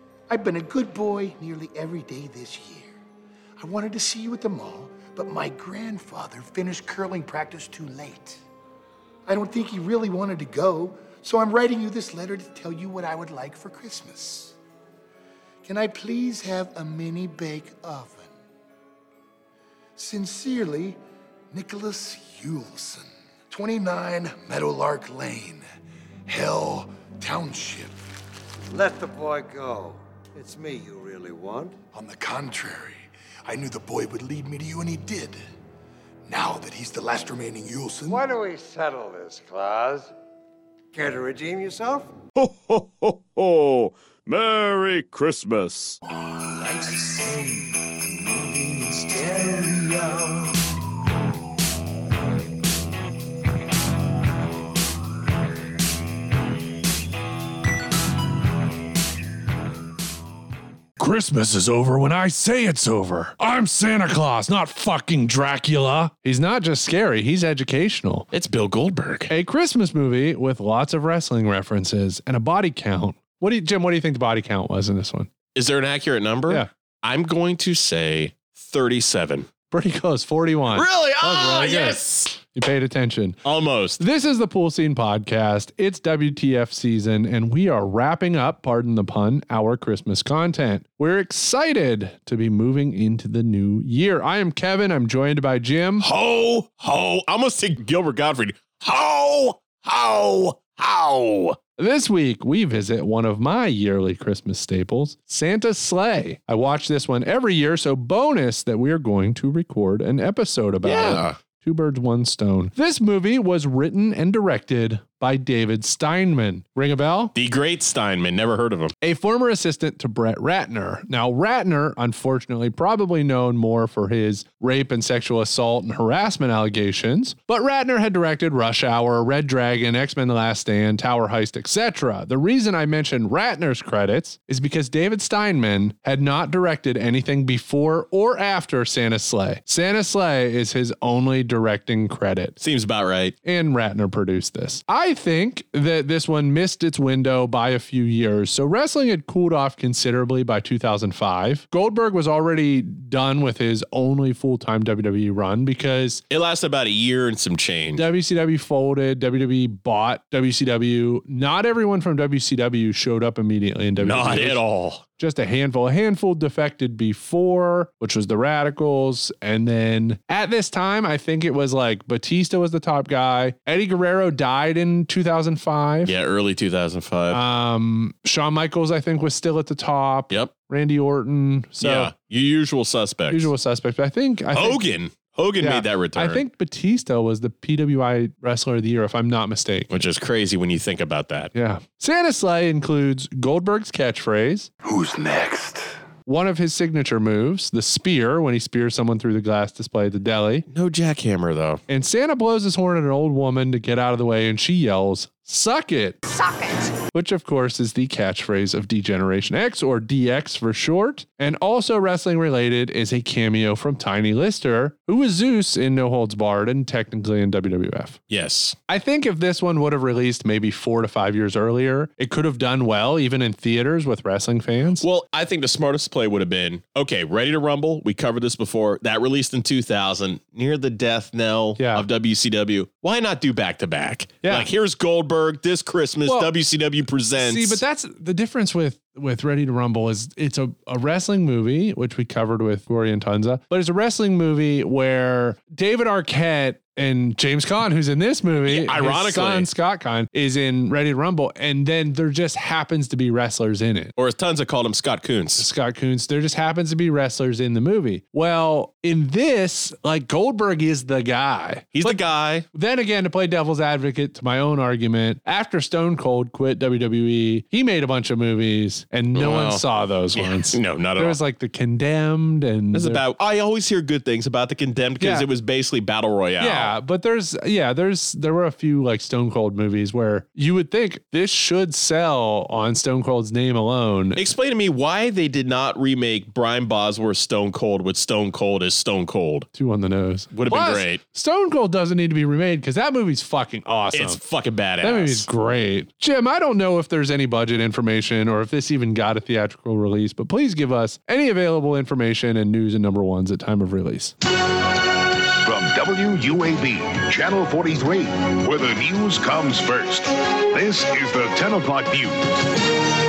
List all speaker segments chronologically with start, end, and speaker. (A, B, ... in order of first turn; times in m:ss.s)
0:00.3-0:03.0 A
0:03.6-0:08.4 A
0:09.3-0:14.6 A
0:15.6-0:18.3 A
0:20.0-0:21.0 A
0:21.5-0:25.6 A
0:26.3-0:28.0 A
0:28.7-0:31.8 B
0:31.9-0:35.4 A
0:36.3-0:38.2 A
0:38.1-0:40.1 B
0:40.9-0:42.1 B
0:42.4-0:46.0 C
0:46.5-0:50.6 C
1:01.0-1:08.3 D
1:08.3-1:09.3 E
1:09.3-1:15.3 D
1:15.6-1:19.5 E
1:19.7-1:23.4 D
1:20.7-1:22.4 E
1:23.4-1:24.0 E
1:24.0-1:36.1 D
1:36.0-1:41.6 E
1:41.8-1:57.3 D
1:50.8-1:51.4 E
1:57.4-1:58.9 E
1:59.0-2:22.6 D
2:22.6-2:23.4 E
2:23.4-2:36.2 D
2:36.3-2:38.0 E
2:38.0-2:44.6 D
2:44.0-2:45.0 E
2:45.2-2:56.1 D
2:56.0-2:57.4 E
2:57.3-3:02.1 D
3:01.8-3:03.5 E
3:03.3-3:04.8 D
3:04.5-3:06.4 E
3:05.6-3:10.0 D
3:09.9-3:11.5 E
3:11.5-3:14.7 D
3:14.8-3:15.8 A
3:16.3-3:20.6 D
3:20.7-3:21.8 E
3:21.9-3:26.2 D
3:27.1-3:38.2 D
3:38.3-3:38.8 E
3:38.9-3:45.0 D
3:45.0-3:57.8 E
3:51.8-3:52.1 D
3:57.4-4:14.1 D
4:08.7-4:09.7 E
4:14.2-4:15.7 E
4:15.6-4:22.2 D
4:22.0-4:22.7 E
4:22.7-4:33.2 D
4:29.4-4:29.8 E
4:30.4-4:31.4 E
4:32.9-4:36.9 E
4:35.2-4:35.5 D
4:36.6-4:44.5 D
4:44.4-4:49.7 E
4:49.8-4:54.4 D
4:50.5-4:51.2 E
4:54.1-4:55.5 E
4:55.0-5:04.4 D
5:05.6-5:12.6 F